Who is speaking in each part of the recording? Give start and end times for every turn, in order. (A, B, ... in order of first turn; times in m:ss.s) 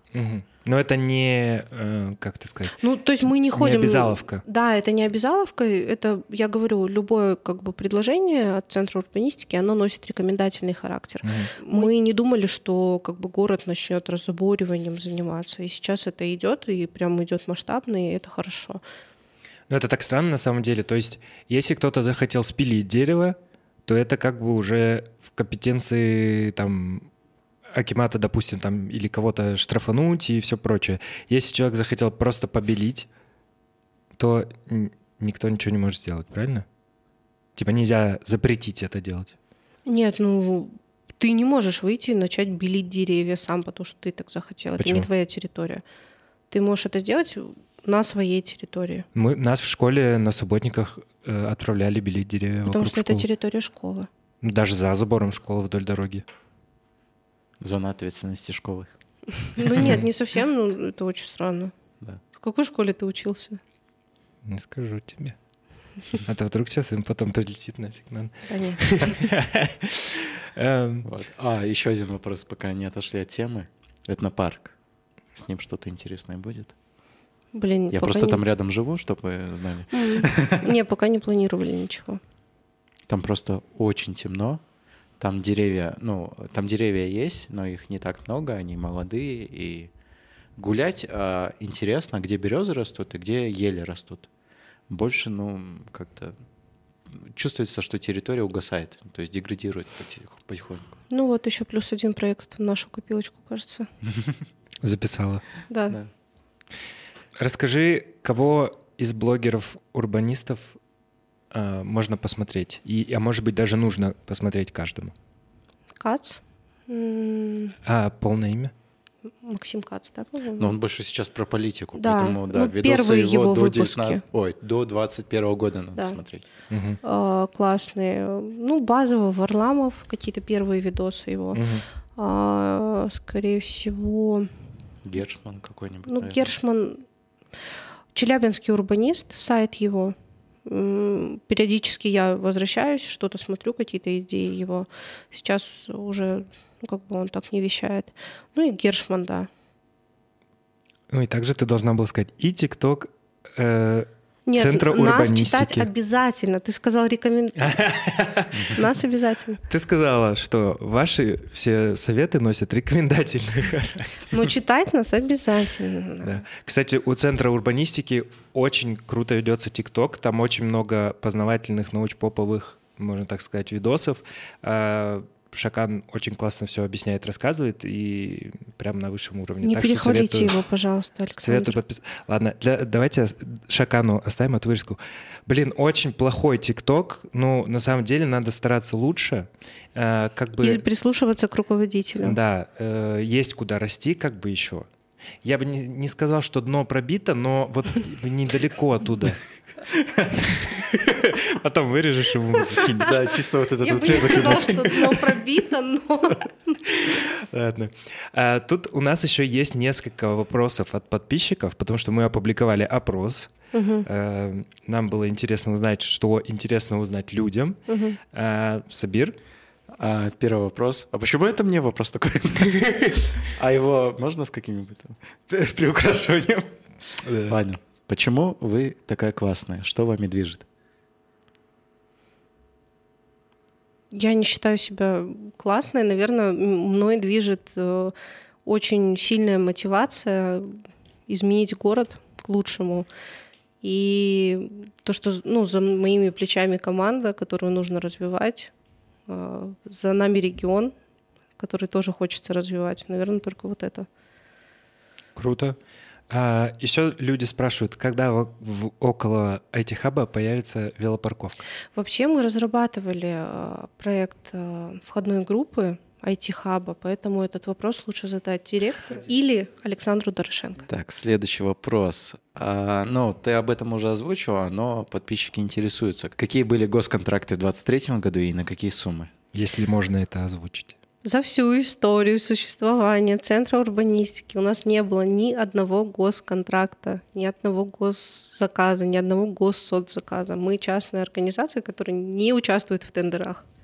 0:00.1-0:02.8 A
0:02.8-0:18.8 B
0:03.5-0:04.4 A
0:11.2-0:11.6 A
0:19.7-0:27.1 A
0:27.7-0:33.1 A
0:34.2-0:36.6 A
0:37.6-0:39.3 A
0:39.8-0:45.8 B
0:44.8-0:45.1 A
0:46.5-0:49.1 B
0:49.1-0:53.2 A
0:52.7-0:54.1 B
0:54.4-0:56.2 A
0:57.6-0:58.9 C
0:59.5-1:01.7 B
1:02.3-1:03.6 B
1:04.4-1:05.4 A
1:06.2-1:11.0 A
1:08.5-1:09.2 B
1:11.0-1:14.7 C
1:15.3-1:16.7 C
1:17.5-1:18.4 B
1:17.9-1:20.7 C
1:19.9-1:22.2 B
1:23.1-1:24.6 C
1:25.2-1:29.9 C
1:30.6-1:34.3 C
1:34.9-1:36.4 C
1:37.1-1:40.9 C
1:41.1-1:43.9 B
1:44.8-1:45.4 A
1:45.7-1:46.0 B
1:47.4-1:50.8 A
1:51.5-1:55.1 A
1:56.0-1:57.8 B
1:57.8-1:58.7 A
1:59.3-2:00.7 B
2:00.6-2:06.5 C
2:02.0-2:04.2 B
2:06.7-2:07.0 A
2:07.0-2:11.6 B
2:11.5-2:11.8 A
2:12.2-2:14.5 B
2:15.0-2:16.5 C
2:16.1-2:17.0 B
2:18.1-2:29.5 B
2:31.1-2:35.9 A
2:34.5-2:37.8 B
2:37.6-2:38.8 A
2:38.8-2:39.6 B
2:39.7-2:44.3 A
2:44.3-2:46.4 B
2:46.2-3:00.5 A
2:59.6-3:01.8 B
3:01.4-3:10.8 A
3:10.6-3:12.4 B
3:12.2-3:14.9 A
3:15.4-3:19.4 A
3:20.2-3:23.2 A
3:22.5-3:23.0 B
3:23.0-3:25.1 C
3:23.8-3:26.8 B
3:24.4-3:25.2 A
3:26.8-3:33.5 A
3:33.7-3:34.0 B
3:34.0-3:37.8 A
3:37.9-3:38.2 B
3:38.3-3:39.3 A
3:40.0-3:46.7 C
3:47.2-3:47.6 A
3:47.4-3:50.6 C
3:54.1-3:58.1 B
3:58.6-4:03.1 B
4:03.8-4:08.7 B
4:09.3-4:10.9 B
4:11.6-4:14.1 B
4:15.4-4:15.8 A
4:16.3-4:21.6 A
4:21.9-4:30.8 B
4:30.9-4:39.3 C
4:39.5-4:40.9 A
4:41.2-4:53.6 B